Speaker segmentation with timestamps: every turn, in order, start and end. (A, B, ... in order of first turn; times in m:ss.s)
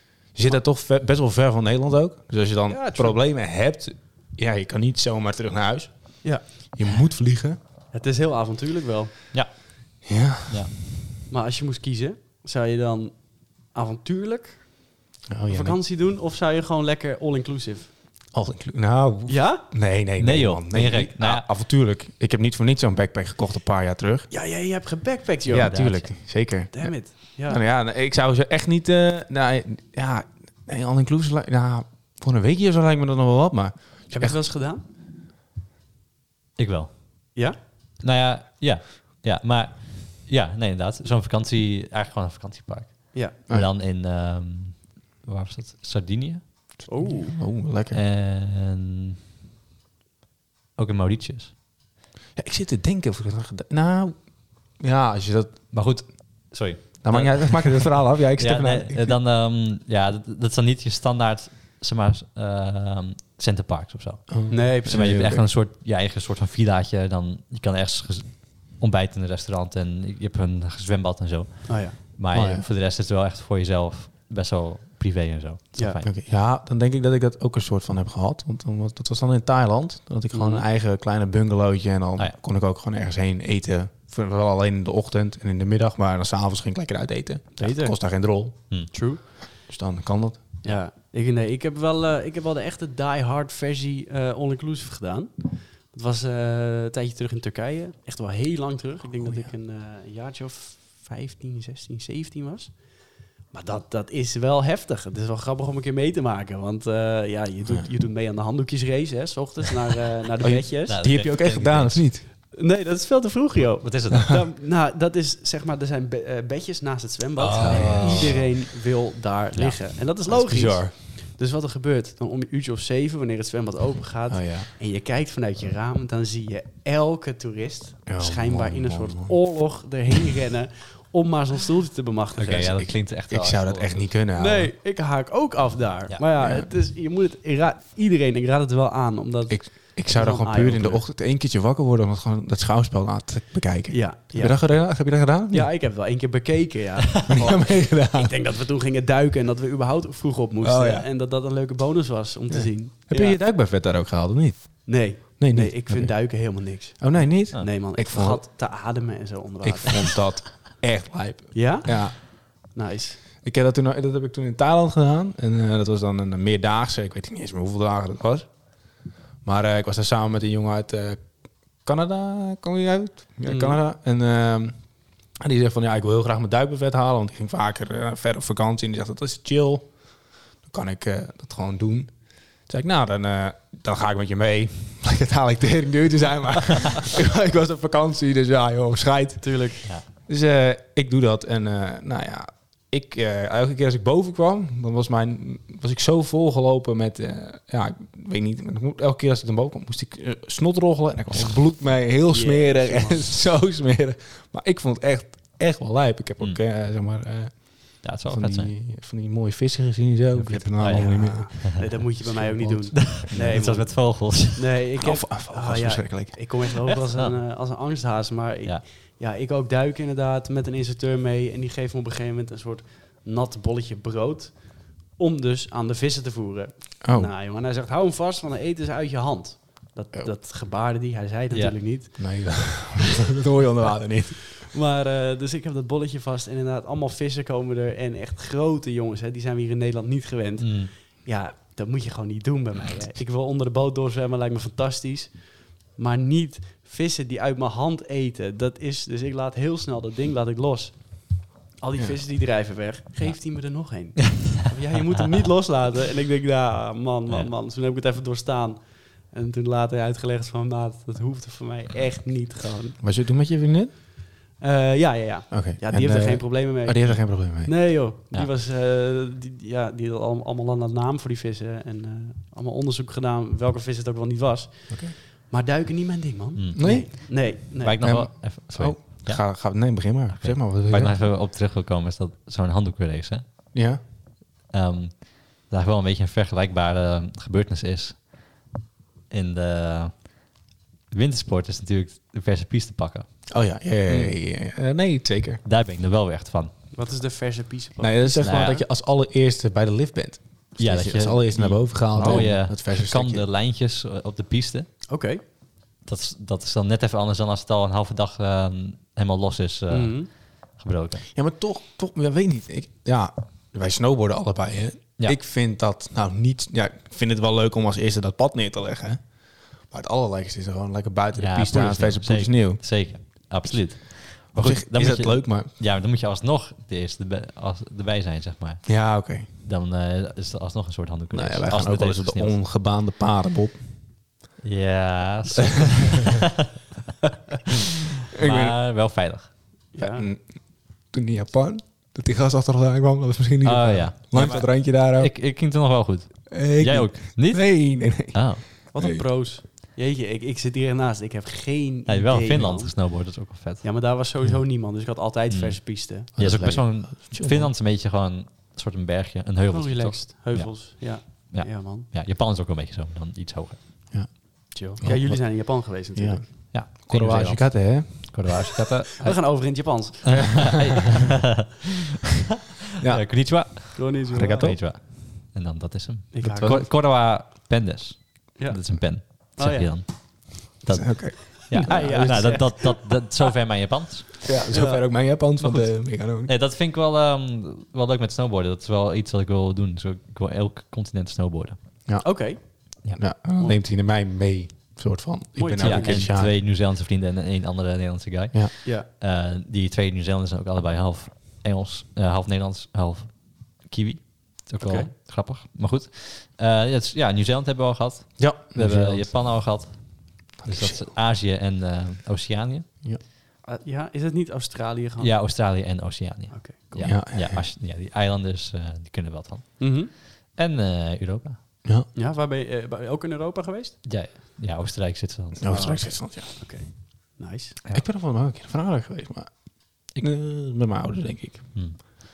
0:00.3-0:07.6 A
0:02.7-0:03.2 B
0:07.9-0:09.1 B
0:09.3-0:09.6 C
0:10.0-0:10.8 A
0:11.3-0:14.9 B
0:15.3-0:15.8 A
0:15.5-0:17.9 B
0:18.3-0:24.3 A
0:19.3-0:19.6 B
0:20.2-0:21.4 C
0:24.3-0:25.8 B
0:25.5-0:34.4 A
0:25.6-0:26.1 C
0:26.7-0:27.6 B
0:34.1-0:34.8 B
0:36.6-0:36.9 C
0:38.0-0:46.8 C
0:46.9-0:47.3 B
0:47.0-0:48.0 A
0:47.9-0:49.2 C
0:50.8-0:51.5 C
0:52.4-0:56.0 A
0:55.7-1:16.1 C
0:57.0-0:59.2 A
1:04.3-1:05.4 A
1:04.5-1:05.2 B
1:11.7-1:12.0 B
1:12.3-1:12.6 A
1:16.0-1:28.9 A
1:20.3-1:20.6 B
1:27.6-1:27.9 B
1:28.9-1:29.2 B
1:29.6-1:30.5 A
1:30.6-1:51.0 B
1:39.2-1:39.5 A
1:50.4-1:52.2 A
1:50.8-1:52.0 C
1:52.5-2:12.8 B
1:53.8-1:54.4 C
1:57.4-1:58.6 C
1:57.6-1:58.4 A
2:00.2-2:00.9 A
2:04.3-2:04.7 A
2:08.1-2:09.4 A
2:12.4-2:14.1 C
2:12.7-2:14.7 A
2:14.4-2:21.0 B
2:16.4-2:16.7 A
2:19.5-2:25.7 A
2:23.9-2:33.4 B
2:27.3-2:28.3 A
2:30.6-2:31.1 A
2:32.5-2:38.4 A
2:34.8-2:40.2 B
2:39.6-2:42.2 A
2:41.5-2:43.2 B
2:43.4-2:48.6 A
2:49.4-3:33.6 A
2:53.4-2:53.8 B
3:09.4-3:09.8 B
3:22.3-3:23.3 B
3:28.0-3:28.7 C
3:30.4-3:31.8 C
3:30.8-3:52.8 B
3:32.9-3:34.6 C
3:35.0-3:36.6 A
3:47.0-3:47.3 A
3:51.5-3:52.2 C
3:52.2-3:54.6 A
3:54.6-4:23.0 B
4:00.6-4:00.9 C
4:23.0-4:23.9 A
4:24.6-4:38.2 B
4:25.5-4:27.7 A
4:34.9-4:35.1 A
4:36.6-4:43.4 C
4:36.8-4:37.1 A
4:38.0-4:41.2 A
4:43.7-4:44.0 A
4:44.7-4:48.7 C
4:49.3-4:50.6 C
4:51.1-4:53.3 C
4:53.5-4:55.6 A
4:55.6-4:56.7 C
4:56.9-4:58.7 B
4:58.0-5:03.4 A
4:58.4-4:58.8 C
5:00.8-5:04.9 C
5:02.2-5:02.5 B
5:05.1-5:05.4 B
5:06.0-5:11.2 C
5:09.9-5:10.3 B
5:11.3-5:22.8 A
5:21.4-5:32.6 C
5:24.5-5:25.7 A
5:28.8-5:29.5 A
5:31.3-5:33.8 A
5:34.6-5:36.4 C
5:38.3-5:38.8 A
5:38.4-5:39.5 C
5:39.9-5:40.3 B
5:40.0-5:45.3 A
5:43.6-5:48.6 C
5:46.5-5:49.2 A
5:48.9-5:53.3 B
5:52.1-5:53.9 C
5:53.8-5:56.3 B
5:55.5-6:03.8 C
5:56.4-5:57.7 A
5:59.7-6:02.1 B
6:04.1-6:08.5 A
6:04.7-6:06.4 B
6:06.7-6:11.8 C
6:09.2-6:10.8 B
6:13.0-6:13.2 A
6:13.1-6:24.4 C
6:13.9-6:14.7 B
6:14.3-6:14.8 A
6:16.3-6:16.8 B
6:16.4-6:16.9 A
6:18.6-6:20.0 B
6:20.9-6:22.7 A
6:21.7-6:23.0 B
6:24.4-6:26.5 A
6:24.7-6:25.0 B
6:25.6-6:31.8 C
6:32.0-6:36.5 A
6:32.2-6:33.0 B
6:35.6-6:36.3 B
6:35.8-6:52.9 C
6:44.8-6:45.1 B
6:48.4-6:49.3 A
6:50.6-6:51.1 A
6:53.6-6:55.3 B
6:55.2-7:01.6 C
6:56.5-6:57.1 B
6:57.0-6:57.6 A
6:59.8-7:00.1 B
7:02.1-7:04.0 B
7:04.0-7:06.1 C
7:05.6-7:06.5 A
7:05.7-7:07.8 B
7:07.9-7:11.7 A
7:11.7-7:12.0 C